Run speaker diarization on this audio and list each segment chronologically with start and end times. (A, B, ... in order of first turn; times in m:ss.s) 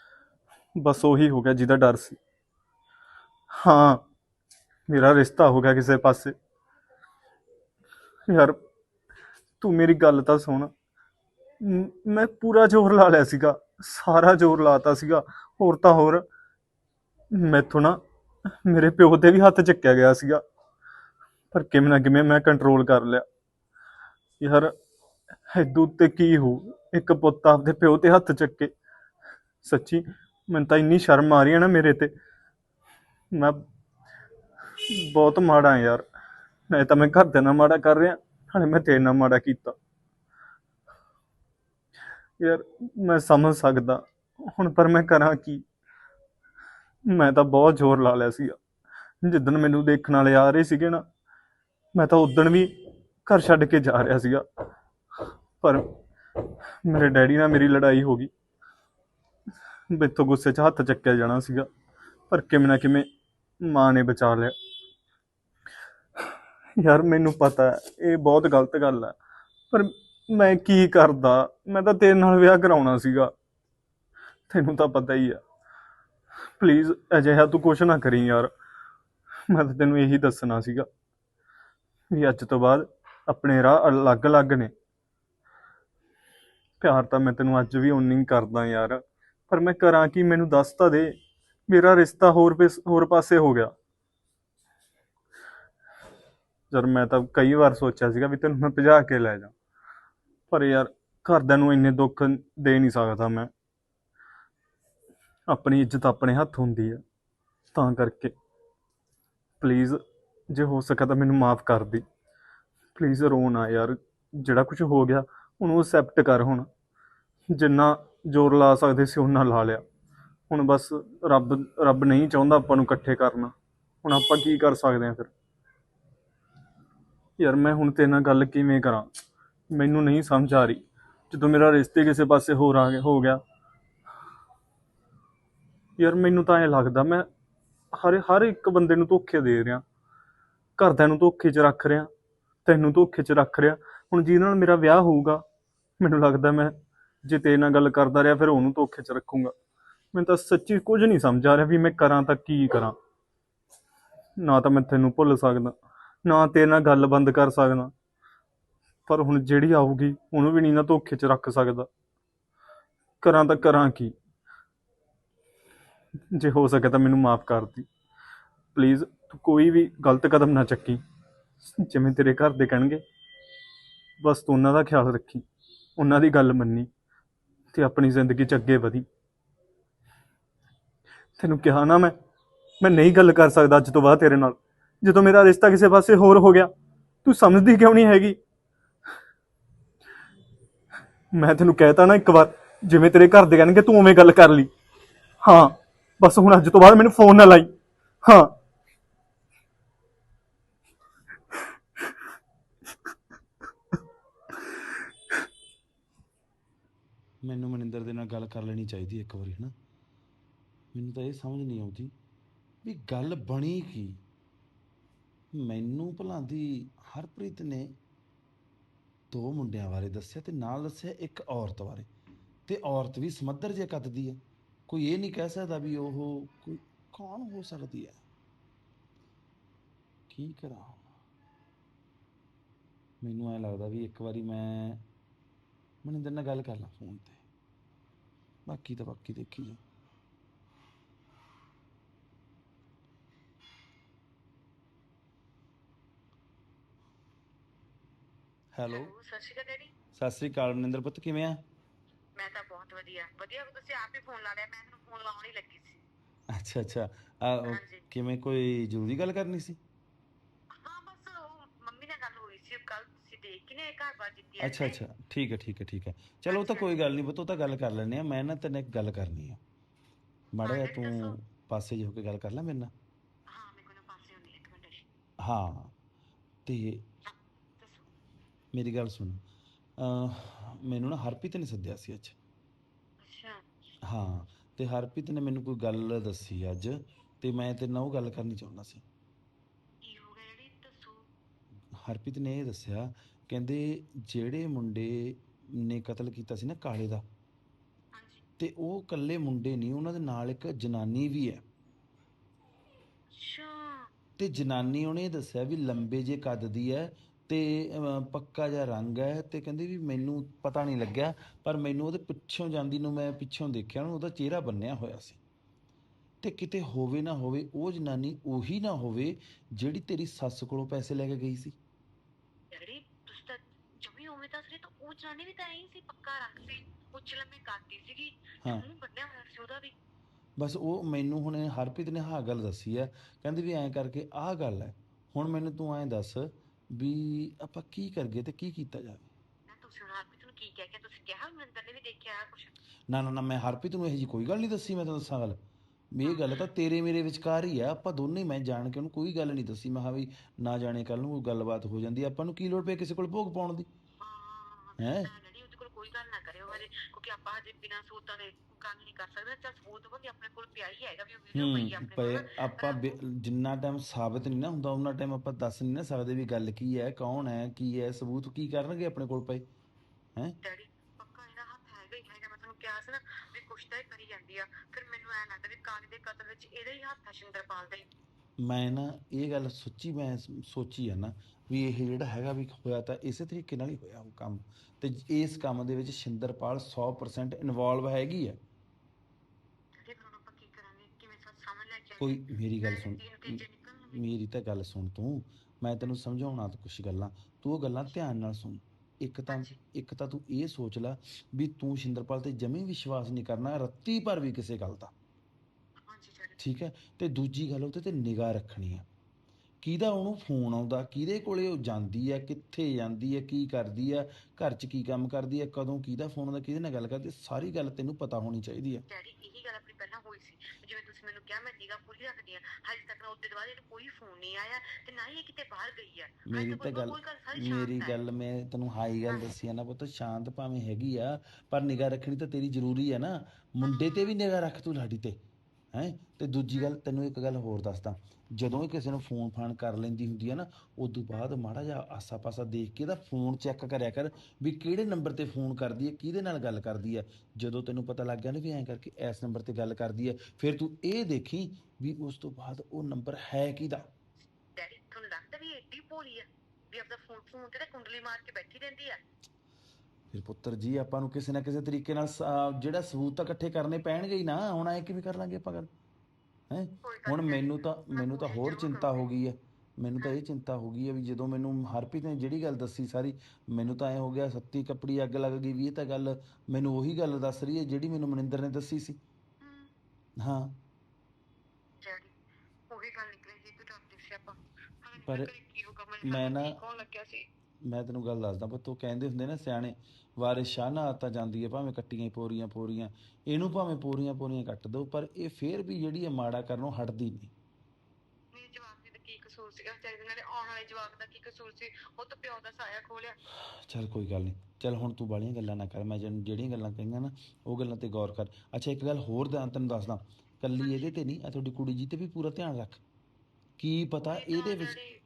0:00.8-0:02.2 A
0:03.6-0:04.0 A
0:04.9-0:06.4 A
0:08.3-0:08.6 A
0:09.6-0:10.7 A
0:11.6-0:16.2 A
0:17.4-0:18.0 A
0:18.7-0:20.4 A
0:21.5-0:23.2 A
0:24.4-0:24.7 A
0:25.5-0:28.7 A
0:29.6-0:32.1 A
0:33.4-0:33.6 A
0:35.0-0:36.0 A
0:36.7-0:39.8 A
0:42.4-0:44.0 A
0:44.6-0:45.6 A
0:47.1-0:48.6 A
0:49.2-0:51.0 A
0:52.0-0:52.7 A
0:53.3-0:54.4 A
0:55.6-0:55.9 A
0:56.8-0:58.3 A
0:59.9-1:01.7 A
1:02.3-1:03.1 A
1:03.6-1:04.5 A
1:06.8-1:09.2 A
1:09.7-1:13.3 A
1:14.5-1:15.4 A
1:16.6-1:18.5 A
1:19.5-1:20.9 A
1:22.1-1:24.7 A
1:26.8-1:31.2 A
1:31.7-1:33.7 A
1:36.7-1:39.5 A
1:40.5-1:43.5 A
1:45.5-1:47.0 A
1:47.8-1:48.3 A
1:49.6-1:52.0 A
1:53.0-1:56.7 A
1:57.5-1:59.8 A
2:00.5-2:03.5 A
2:04.0-2:05.3 A
2:07.4-2:09.1 A
2:09.7-2:13.4 A
2:16.0-2:17.3 A
2:17.9-2:19.8 A
2:20.8-2:22.1 A
2:22.7-2:25.4 A
2:26.0-2:26.7 A
2:27.2-2:29.5 A
2:30.1-2:33.0 A
2:34.4-2:37.9 A
2:39.1-2:41.9 A
2:43.2-2:44.1 A
2:46.3-2:47.9 A
2:48.8-2:51.0 A
2:51.8-2:53.0 A
2:54.2-2:55.4 A
2:56.0-2:56.9 A
2:57.7-2:59.0 A
3:01.4-3:02.2 A
3:02.8-3:06.7 A
3:07.2-3:08.4 A
3:11.3-3:14.7 A
3:15.4-3:17.7 A
3:18.2-3:18.5 A
3:27.4-3:29.7 B
3:30.9-3:32.1 B
3:32.8-3:34.2 B
3:35.5-3:37.9 B
3:39.3-3:42.1 B
3:42.7-3:48.2 B
3:50.3-3:51.0 B
3:53.2-3:55.0 B
3:56.0-3:57.4 B
3:58.7-3:59.8 B
4:08.8-4:09.1 B
4:08.8-4:09.9 C
4:10.2-4:11.6 B
4:12.4-4:16.0 C
4:16.5-4:19.8 B
4:17.6-4:18.0 C
4:20.8-4:25.0 C
4:24.6-4:29.6 B
4:26.5-4:27.0 C
4:30.6-4:32.9 B
4:30.6-4:31.4 C
4:33.5-4:35.0 C
4:35.4-4:35.9 B
4:36.7-4:37.0 B
4:37.3-4:38.0 C
4:38.7-4:39.4 B
4:40.0-4:42.4 B
4:43.2-4:43.6 C
4:44.1-4:49.0 B
4:50.0-4:51.2 C
4:52.0-4:57.2 B
4:58.1-4:58.4 C
4:58.6-5:01.6 B
5:03.3-5:04.1 C
5:04.4-5:15.4 B
5:16.4-5:21.8 B
5:22.7-5:29.9 C
5:30.6-5:39.3 B
5:39.7-5:42.7 C
5:43.1-5:45.6 B
5:46.1-5:53.9 B
5:46.2-5:46.6 C
5:54.2-6:03.2 C
5:55.0-5:55.3 B
6:01.6-6:09.7 B
6:10.6-6:18.1 C
6:18.6-6:28.6 B
6:30.0-6:34.3 C
6:32.2-6:45.1 B
6:39.5-6:39.7 C
6:46.0-6:46.6 C
6:46.6-6:49.0 B
6:49.8-6:59.0 B
6:59.1-7:08.2 C
7:06.5-7:15.4 B
7:09.2-7:09.5 C
7:13.8-7:14.3 C
7:15.9-7:34.1 B
7:34.8-7:39.2 C
7:40.3-7:45.9 B
7:46.7-7:59.2 B
7:47.0-7:49.3 C
7:59.6-7:59.9 C
8:00.4-8:00.8 B
8:02.0-8:02.3 C
8:02.9-8:07.4 C
8:05.2-8:05.5 B
8:06.2-8:06.8 B
8:07.9-8:17.5 B
8:18.5-8:23.4 C
8:23.9-8:33.0 B
8:30.8-8:31.2 C
8:33.8-8:35.0 B
8:34.2-8:35.1 C